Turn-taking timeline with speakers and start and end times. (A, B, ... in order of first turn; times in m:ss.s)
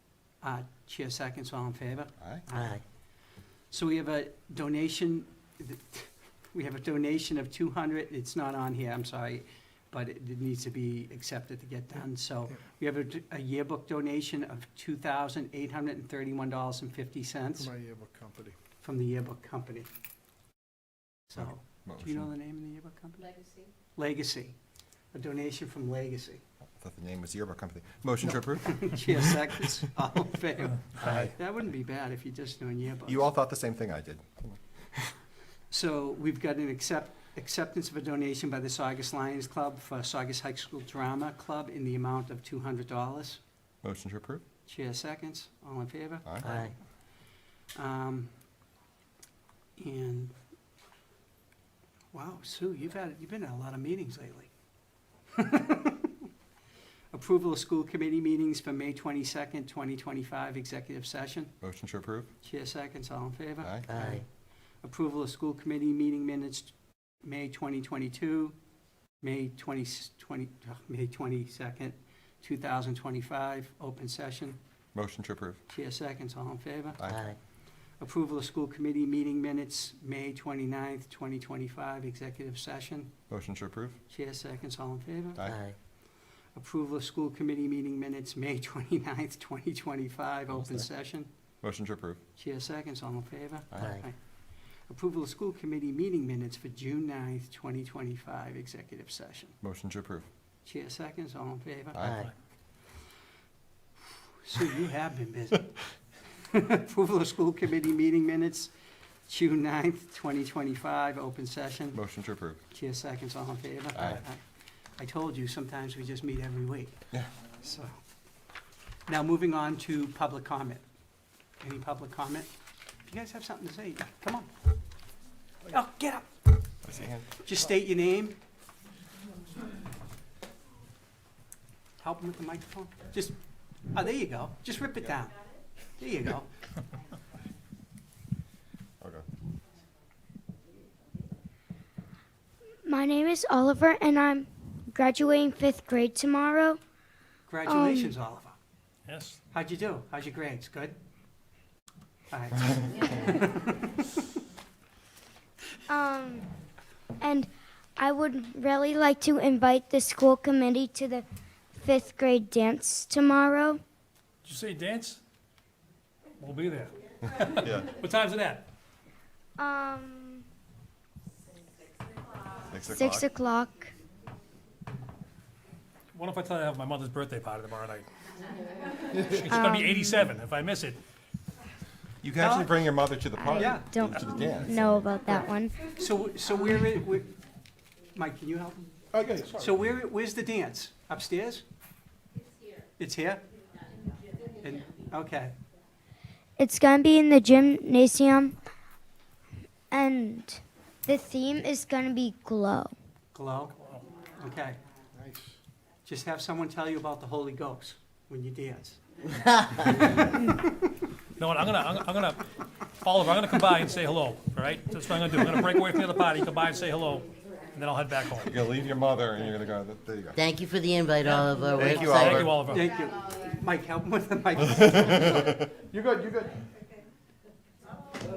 0:00.4-0:02.8 A
0:02.2-0:02.4 B
0:02.5-0:02.8 C
0:03.7-0:17.7 A
0:17.6-0:18.6 D
0:18.8-0:19.9 A
0:21.3-0:23.3 A
0:21.4-0:22.3 B
0:23.9-0:24.6 A
0:25.1-0:26.4 A
0:26.8-0:29.1 B
0:28.2-0:33.3 A
0:31.0-0:31.3 B
0:33.1-0:34.4 B
0:35.7-0:43.4 A
0:43.8-0:44.4 B
0:44.6-0:46.7 A
0:46.2-0:46.5 B
0:46.4-0:46.7 C
0:47.7-0:48.3 A
0:49.8-0:50.3 A
0:52.1-0:54.5 A
0:55.3-0:56.1 A
0:57.1-1:01.5 A
1:01.6-1:02.3 B
1:02.4-1:04.2 A
1:03.6-1:03.9 B
1:03.9-1:04.2 C
1:04.8-1:08.6 A
1:09.2-1:14.6 A
1:14.9-1:15.6 B
1:15.7-1:17.0 A
1:17.0-1:17.4 B
1:17.1-1:17.4 C
1:18.0-1:23.1 A
1:23.3-1:24.0 B
1:24.1-1:25.4 A
1:25.4-1:25.6 B
1:25.4-1:25.8 C
1:26.5-1:31.3 A
1:31.6-1:32.2 B
1:32.4-1:34.2 A
1:33.7-1:34.0 B
1:33.8-1:34.0 C
1:34.9-1:39.5 A
1:39.6-1:40.3 B
1:40.6-1:42.0 A
1:41.9-1:42.3 B
1:42.0-1:42.3 C
1:44.4-1:45.8 A
1:46.3-1:48.7 A
1:49.3-1:52.0 A
1:51.9-1:52.6 B
1:52.7-1:54.4 A
1:54.0-1:54.2 B
1:55.0-1:57.0 A
1:57.6-1:58.0 A
1:59.1-2:00.8 A
2:01.6-2:02.5 A
2:03.0-2:04.5 A
2:05.7-2:06.3 A
2:06.9-2:07.2 B
2:07.4-2:08.4 A
2:12.0-2:13.4 A
2:13.9-2:15.4 A
2:16.0-2:16.5 A
2:22.8-2:26.8 E
2:27.5-2:28.6 A
2:27.6-2:28.1 E
2:29.0-2:29.4 F
2:29.5-2:31.0 A
2:32.3-2:34.0 A
2:35.9-2:36.5 E
2:37.2-2:41.2 E
2:41.8-2:43.8 E
2:44.4-2:45.2 F
2:46.4-2:48.7 F
2:47.6-2:47.9 B
2:49.6-2:50.4 E
2:52.7-2:53.3 B
2:52.8-2:53.9 E
2:56.1-2:58.1 F
2:59.1-3:01.0 F
2:59.5-3:00.2 E
3:02.2-3:05.2 B
3:02.4-3:02.7 A
3:03.4-3:05.9 E
3:03.5-3:03.8 A
3:05.9-3:07.3 A
3:08.1-3:08.9 A
3:09.1-3:09.8 D
3:09.4-3:11.6 A
3:13.0-3:13.4 A
3:14.6-3:15.5 A
3:16.6-3:18.6 E
3:19.9-3:22.9 E
3:23.3-3:23.7 A
3:24.4-3:24.8 A
3:25.2-3:25.5 D
3:26.0-3:29.0 A
3:29.8-3:30.6 A
3:31.4-3:32.4 F
3:33.0-3:38.6 F
3:38.4-3:40.4 B
3:40.3-3:42.4 C
3:41.2-3:42.9 F
3:41.8-3:42.7 B
3:42.6-3:45.5 A
3:45.9-3:46.5 D